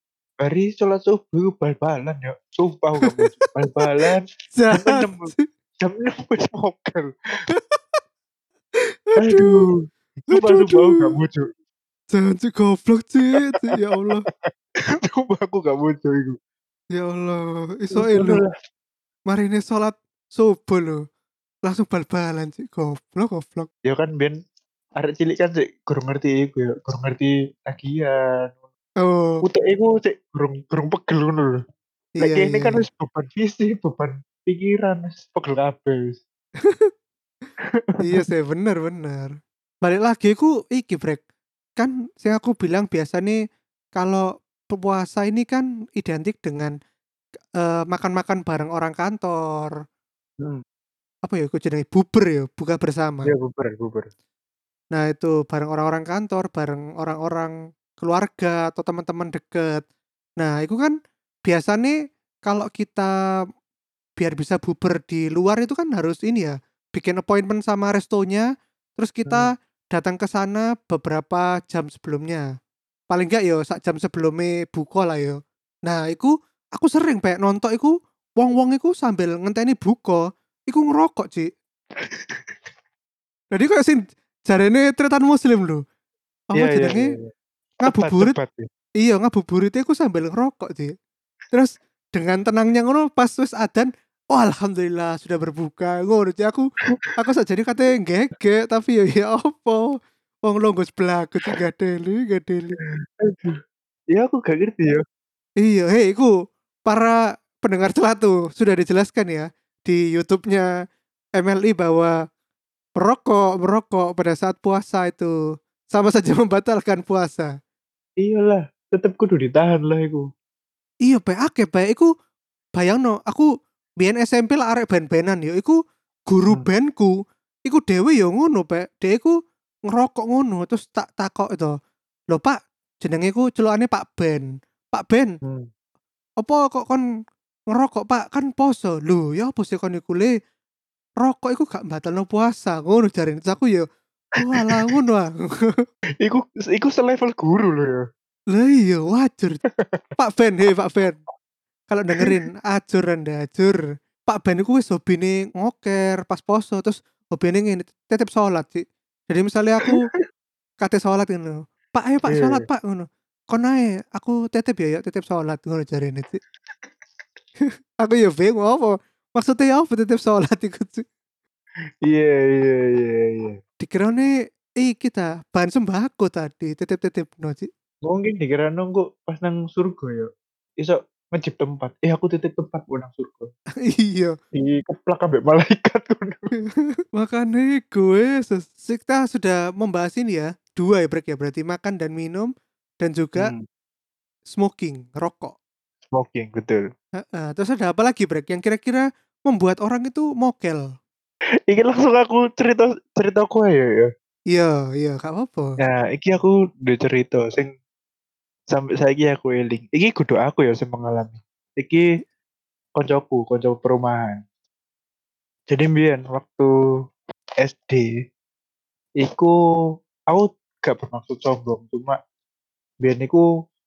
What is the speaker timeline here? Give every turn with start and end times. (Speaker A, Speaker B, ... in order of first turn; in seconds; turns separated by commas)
Speaker A: 0.4-7.1, Speaker B: 3.1-3.9, Speaker B: 4.6-5.4, Speaker B: 7.5-8.0, Speaker B: 9.1-9.6, Speaker A: 9.2-11.4, Speaker B: 10.3-11.1, Speaker B: 12.1-14.3, Speaker A: 13.4-16.4, Speaker B: 17.0-18.4, Speaker A: 17.9-18.5, Speaker B: 19.3-21.0, Speaker B: 21.7-23.7, Speaker A: 23.9-24.4, Speaker A: 25.0-28.6, Speaker B: 29.0-29.4, Speaker A: 29.4-31.6, Speaker B: 32.2-32.8, Speaker A: 32.2-36.2, Speaker A: 37.9-38.3, Speaker B: 38.0-41.2, Speaker B: 41.8-43.4, Speaker B: 44.0-46.7, Speaker B: 47.6-49.8, Speaker B: 51.2-53.3, Speaker A: 53.3-54.1, Speaker B: 54.9-59.8, Speaker B: 60.4-60.9, Speaker B: 61.5-62.0, Speaker B: 62.5-63.1, Speaker B: 64.2-68.5, Speaker B: 69.0-72.5, Speaker B: 73.1-81.5, Speaker A: 82.0-82.5, Speaker B: 83.5-85.8, Speaker B: 86.5-87.2, Speaker A: 86.6-87.2, Speaker B: 87.8-88.3, Speaker A: 87.9-88.7, Speaker B: 89.0-90.9, Speaker B: 91.5-96.7, Speaker B: 97.2-99.8, Speaker B: 100.5-102.8, Speaker A: 102.8-103.6, Speaker A: 104.1-105.0, Speaker B: 105.6-106.3, Speaker B: 106.9-110.7, Speaker B: 111.4-112.1, Speaker B: 113.0-115.3, Speaker B: 115.9-117.5, Speaker A: 118.2-120.3, Speaker B: 121.1-122.1, Speaker B: 122.8-123.5, Speaker B: 124.0-125.8, Speaker B: 126.3-129.4, Speaker B: 129.9-131.7, Speaker B: 132.3-135.4, Speaker B: 136.4-137.0, Speaker B: 137.7-140.3, Speaker B: 141.2-143.9, Speaker B: 144.4-145.8, Speaker A: 144.5-144.9, Speaker A: 146.2-148.1, Speaker B: 148.5-149.6, Speaker A: 149.7-150.1, Speaker B: 150.2-151.2, Speaker B: 151.9-160.1, Speaker A: 159.8-160.1, Speaker B: 160.8-166.4, Speaker A: 162.3-162.7, Speaker B: 168.0-171.1, Speaker A: 172.0-173.6, Speaker B: 173.8-177.7, Speaker A: 178.1-183.5, Speaker B: 183.9-184.3, Speaker A: 184.5-186.5, Speaker B: 187.2-192.5, Speaker B: 193.0-193.5, Speaker A: 193.4-193.6, Speaker B: 194.5-195.6, Speaker A: 196.1-196.8, Speaker B: 197.2-200.8, Speaker A: 201.7-204.1, Speaker B: 204.5-205.8, Speaker A: 205.8-207.7, Speaker A: 208.7-212.1, Speaker A: 213.0-214.4, Speaker A: 215.7-216.7, Speaker A: 217.6-218.1, Speaker A: 219.2-219.5, Speaker A: 220.3-222.2, Speaker A: 223.0-223.4